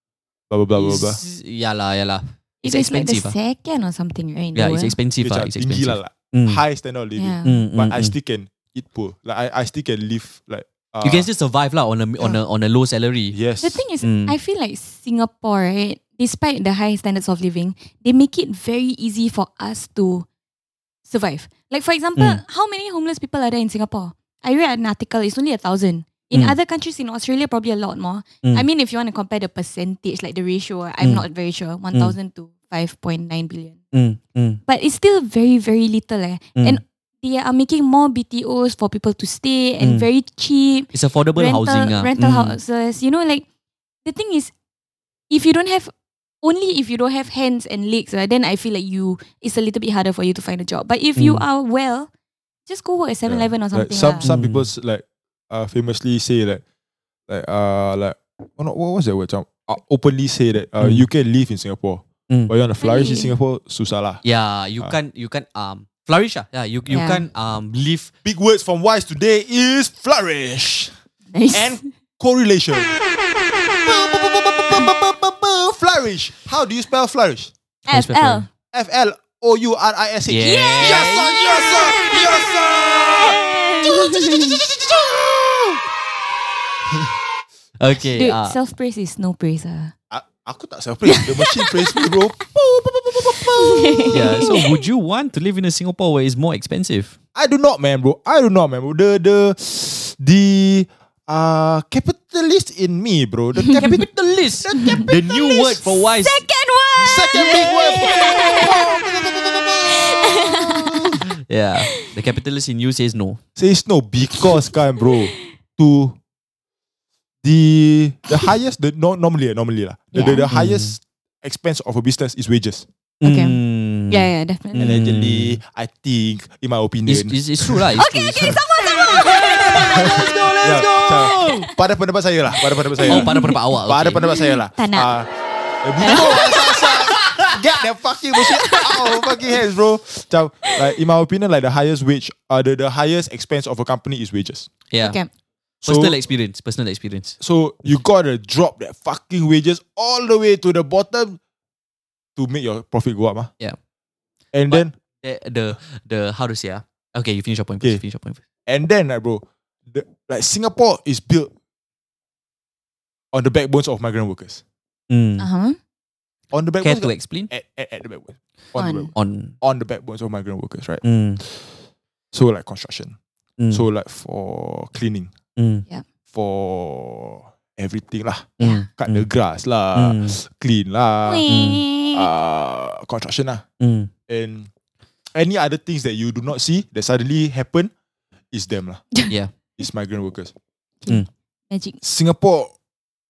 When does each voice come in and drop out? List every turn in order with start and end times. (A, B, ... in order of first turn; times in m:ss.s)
0:00.5-0:01.2 A
0:00.8-0:03.3 B
0:02.6-0:05.0 C
0:04.5-0:06.6 B
0:05.2-0:11.3 A
0:07.2-0:07.6 C
0:07.4-0:08.1 B
0:11.0-0:13.4 B
0:13.3-0:13.8 A
0:13.6-0:20.2 C
0:14.0-0:14.4 B
0:21.0-0:33.8 C
0:33.9-0:34.6 B
0:34.6-0:43.4 C
0:39.8-0:40.1 B
0:40.9-0:42.6 B
0:44.0-0:44.5 C
0:45.3-0:52.1 C
0:51.2-0:51.4 B
0:52.7-0:54.3 C
0:53.3-0:56.6 A
0:54.2-0:54.7 B
0:57.3-1:04.2 A
1:00.8-1:01.1 B
1:02.8-1:03.3 C
1:04.2-1:08.1 B
1:06.9-1:07.2 C
1:08.2-1:10.9 A
1:11.3-1:11.9 C
1:11.5-1:13.0 A
1:13.7-1:17.5 A
1:17.9-1:18.5 C
1:17.9-1:18.4 B
1:18.7-1:25.8 A
1:20.3-1:21.4 B
1:20.4-1:22.4 C
1:23.0-1:24.6 C
1:27.8-1:28.6 B
1:28.0-1:29.9 C
1:30.1-1:34.5 A
1:31.0-1:32.1 C
1:33.5-1:34.8 C
1:34.1-1:37.2 B
1:37.3-1:45.2 A
1:43.8-1:46.4 B
1:44.8-1:48.9 C
1:47.0-1:51.1 A
1:47.3-1:48.7 B
1:49.9-1:51.2 C
1:51.5-1:53.4 B
1:53.6-1:56.2 A
1:55.0-1:55.4 C
1:57.4-2:02.8 A
2:00.1-2:00.5 C
2:00.5-2:00.9 B
2:03.2-2:05.6 B
2:03.2-2:03.6 C
2:04.1-2:04.9 C
2:04.8-2:08.6 A
2:07.0-2:08.6 B
2:08.0-2:10.3 C
2:09.2-2:11.7 B
2:09.9-2:15.3 A
2:11.2-2:11.8 C
2:12.8-2:13.6 C
2:13.0-2:14.3 B
2:14.2-2:15.1 C
2:15.8-2:24.7 A
2:16.0-2:16.9 C
2:16.0-2:17.6 B
2:18.7-2:19.4 C
2:24.9-2:25.2 B
2:25.0-2:25.3 C
2:25.8-2:26.2 A
2:25.8-2:28.0 B
2:27.4-2:31.4 A
2:32.4-2:33.5 A
2:34.5-2:34.9 A
2:34.7-2:38.4 B
2:38.7-2:41.5 A
2:43.3-2:44.6 A
2:45.1-2:45.5 B
2:45.4-2:45.8 C
2:46.5-2:51.7 A
2:46.8-2:47.5 B
2:48.8-2:49.1 C
2:49.1-2:49.5 B
2:51.0-2:51.4 B
2:52.3-2:53.1 A
2:53.6-2:53.8 B
2:53.7-2:55.3 A
2:55.6-2:55.8 B
2:56.3-3:01.4 A
2:58.6-2:58.9 C
2:58.6-2:59.2 B
2:59.9-3:00.4 B
3:01.2-3:02.3 C
3:01.5-3:01.8 B
3:02.1-3:03.6 A
3:03.8-3:04.1 B
3:04.3-3:04.7 A
3:05.3-3:07.9 A
3:08.5-3:09.0 A
3:09.3-3:09.5 B
3:09.8-3:10.5 A
3:11.0-3:12.0 C
3:12.0-3:12.7 A